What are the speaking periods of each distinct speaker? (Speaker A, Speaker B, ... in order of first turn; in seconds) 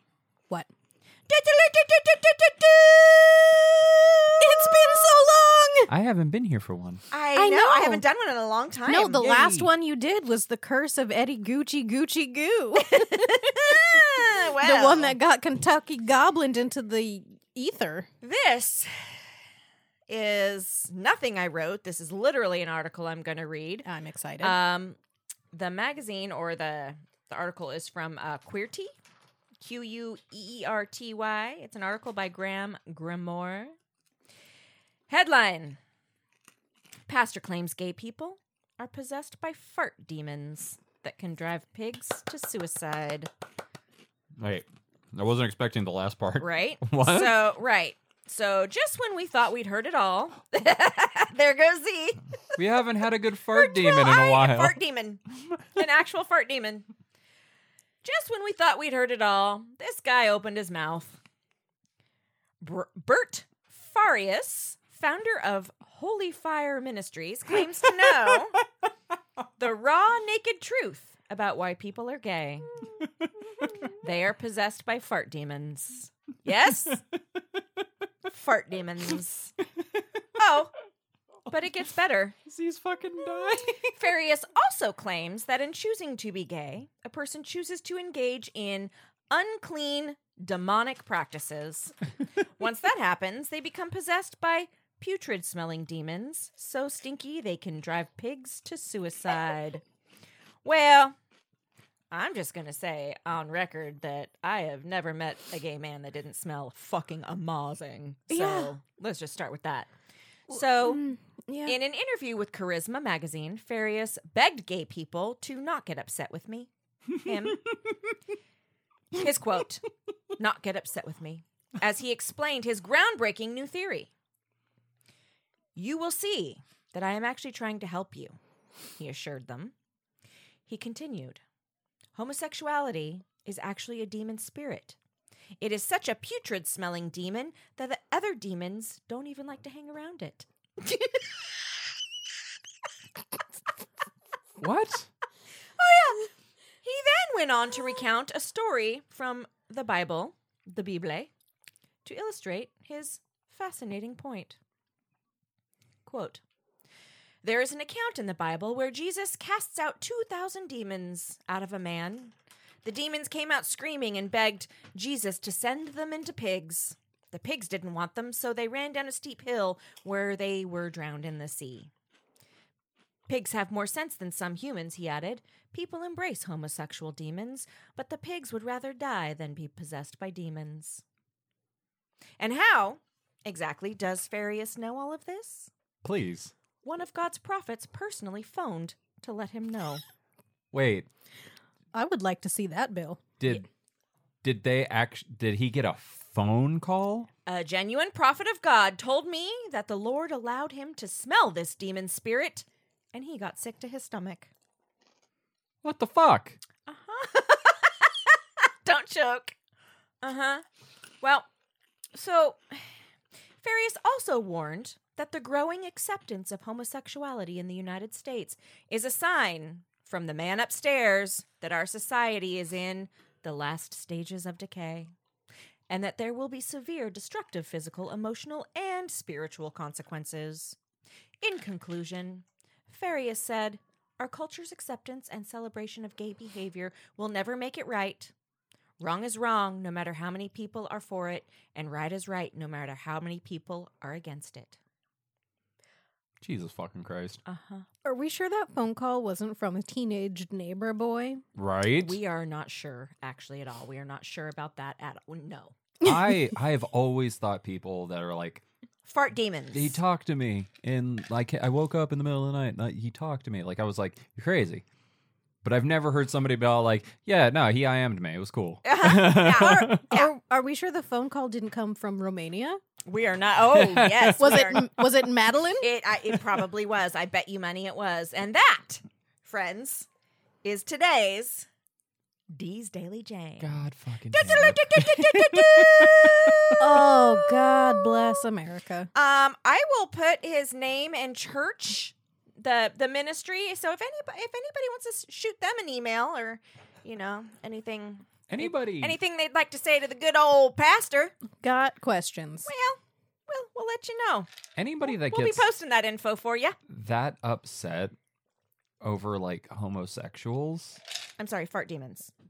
Speaker A: 1.3-4.8, 7.1-9.3, 12.9-15.1, 18.2-19.2, 20.1-23.9, 24.4-25.0, 25.5-28.9, 29.6-33.7, 35.1-35.8, 37.1-43.3, 46.4-52.6, 53.5-55.2, 55.7-56.9, 58.0-61.2, 62.6-68.6, 69.6-72.7, 73.9-77.0, 78.3-79.5, 80.4-80.7, 81.5-82.3, 83.8-92.0, 92.6-99.8, 100.6-101.1, 102.1-109.9, 110.5-111.0, 111.7-117.6, 119.1-119.8, 120.4-124.1, 125.8-128.4, 129.0-129.7, 130.7-131.4, 132.1-135.0, 135.6-141.2, 145.8-146.3, 146.8-151.3, 152.0-154.6, 156.1-156.4, 157.4-171.9, 173.3-181.0, 182.4-185.7, 186.8-190.0, 197.4-204.5, 206.9-209.5, 210.2-210.6, 212.1-212.9, 213.6-225.1, 225.9-230.8, 231.4-238.3, 239.0-244.8, 247.4-247.8, 251.9-255.8, 259.1-260.0, 268.8-270.3, 273.1-274.9, 275.8-280.1, 280.6-281.7, 282.5-283.7, 284.3-288.4, 289.1-301.3, 302.6-304.5, 305.0-306.8, 311.4-312.3
Speaker B: 4.4-5.9, 7.3-8.0, 8.9-18.1, 23.8-24.6, 108.3-108.7, 110.8-111.8, 191.9-193.2, 248.0-251.4, 269.9-272.8, 274.4-275.9, 286.8-289.1, 301.6-302.7
Speaker C: 5.9-7.0, 9.2-9.7, 44.4-47.3, 52.5-54.8, 73.2-73.7, 82.4-83.9, 144.6-145.1, 186.0-186.5, 190.7-191.1, 193.4-193.7, 194.4-197.3, 205.8-206.6, 246.4-247.4, 251.5-252.2, 256.0-258.6, 259.7-264.8, 265.6-270.1, 273.7-275.0, 283.6-286.7, 298.5-299.2, 304.8-305.7, 306.9-308.1, 309.0-311.0